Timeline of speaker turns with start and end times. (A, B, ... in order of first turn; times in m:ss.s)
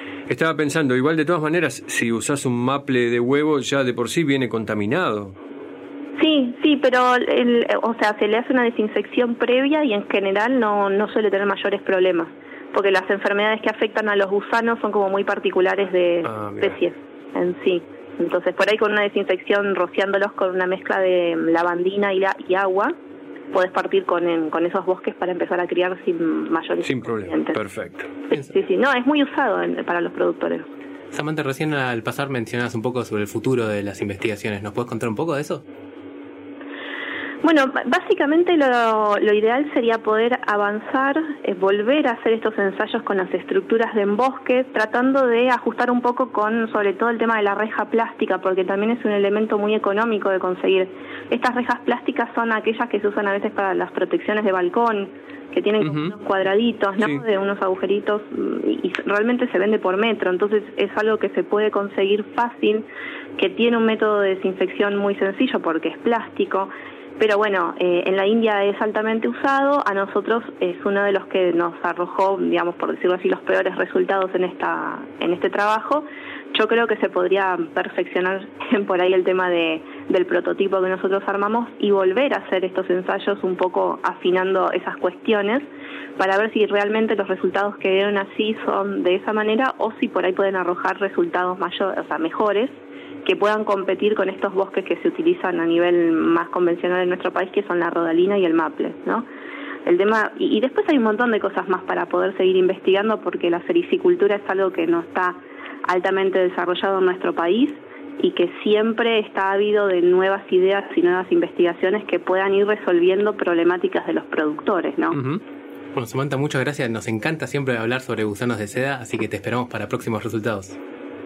0:00.3-0:05.4 A
0:06.2-0:22.9 B
0:16.2-0:16.7 A
0:23.5-0:27.6 B
0:26.8-0:28.1 A
0:28.3-0:30.7 B
0:31.1-0:35.6 C
0:37.4-1:25.6 B
0:55.8-0:56.1 A
1:26.2-1:39.2 B
1:39.8-1:55.2 B
1:55.1-1:55.4 A
1:56.0-2:00.8 C